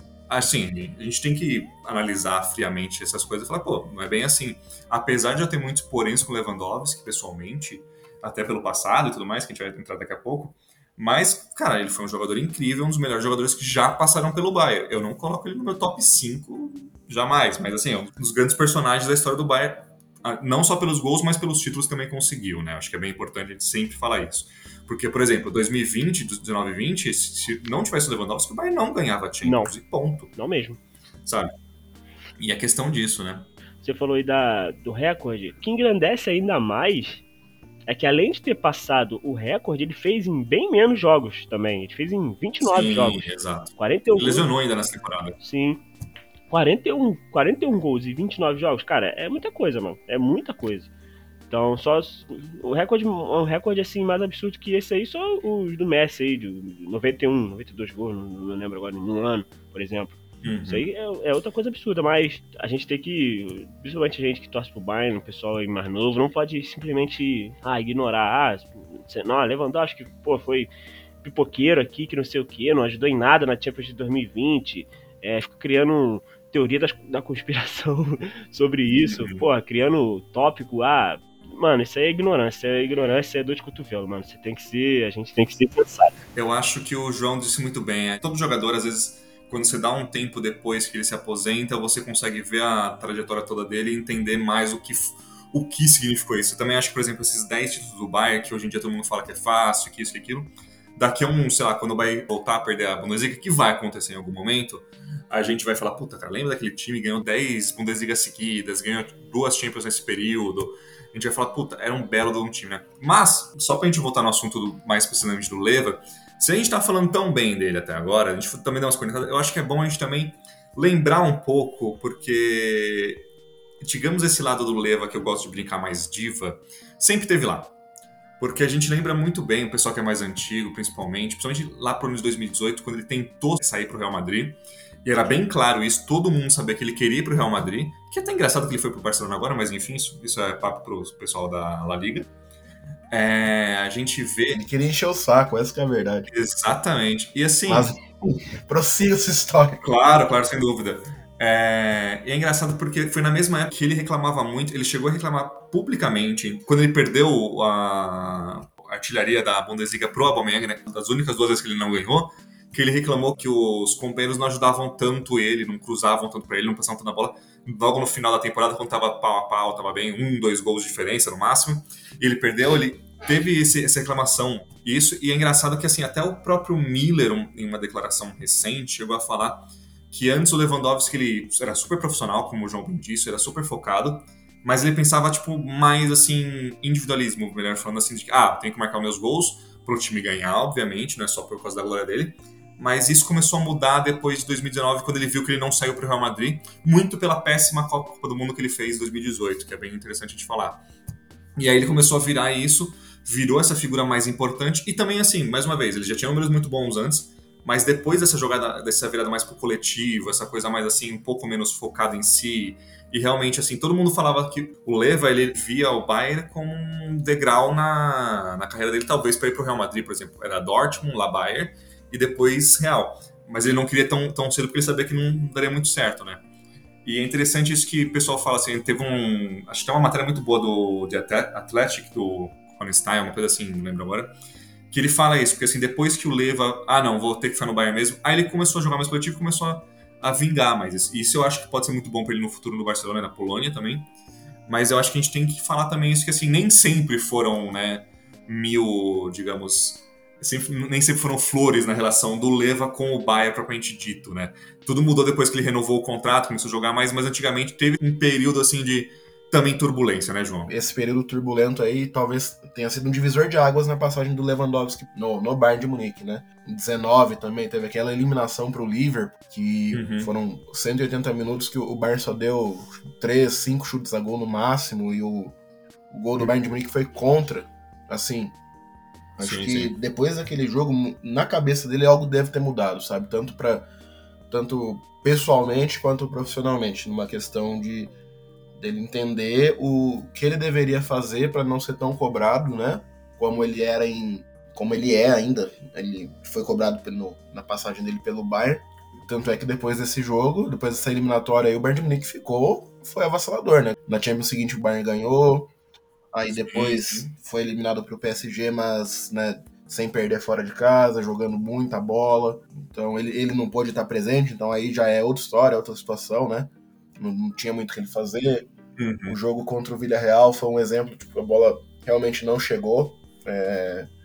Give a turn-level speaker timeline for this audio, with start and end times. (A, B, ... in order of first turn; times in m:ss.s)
0:00.3-0:30.3 A
0:29.4-0:29.7 B
0:30.4-0:30.8 B
0:31.2-0:31.5 A
0:32.4-0:33.5 A
0:33.8-0:37.2 B
0:37.9-0:44.5 B
0:42.6-0:45.4 A
0:45.4-0:45.8 B
0:46.5-0:50.9 B
0:51.5-1:10.7 B
1:00.4-1:00.9 A
1:11.2-1:26.2 B
1:18.9-1:19.5 A
1:26.3-2:03.3 A
2:03.8-2:07.7 A
2:08.4-2:22.3 A
2:23.1-2:24.6 A
2:24.6-2:26.3 C
2:26.3-2:27.9 A
2:27.7-2:29.8 C
2:29.8-3:20.8 A
3:21.6-3:46.4 A
3:47.0-3:54.4 A
3:54.9-4:04.1 A
4:04.7-4:20.7 A
4:20.7-4:35.6 C
4:29.9-4:30.3 A
4:36.1-4:38.6 C
4:39.4-4:43.9 C
4:39.4-4:40.0 A
4:44.5-4:48.1 C
4:48.8-5:05.7 C
5:06.3-5:18.7 C
5:06.7-5:07.3 A
5:19.0-5:19.4 A
5:19.3-5:24.1 C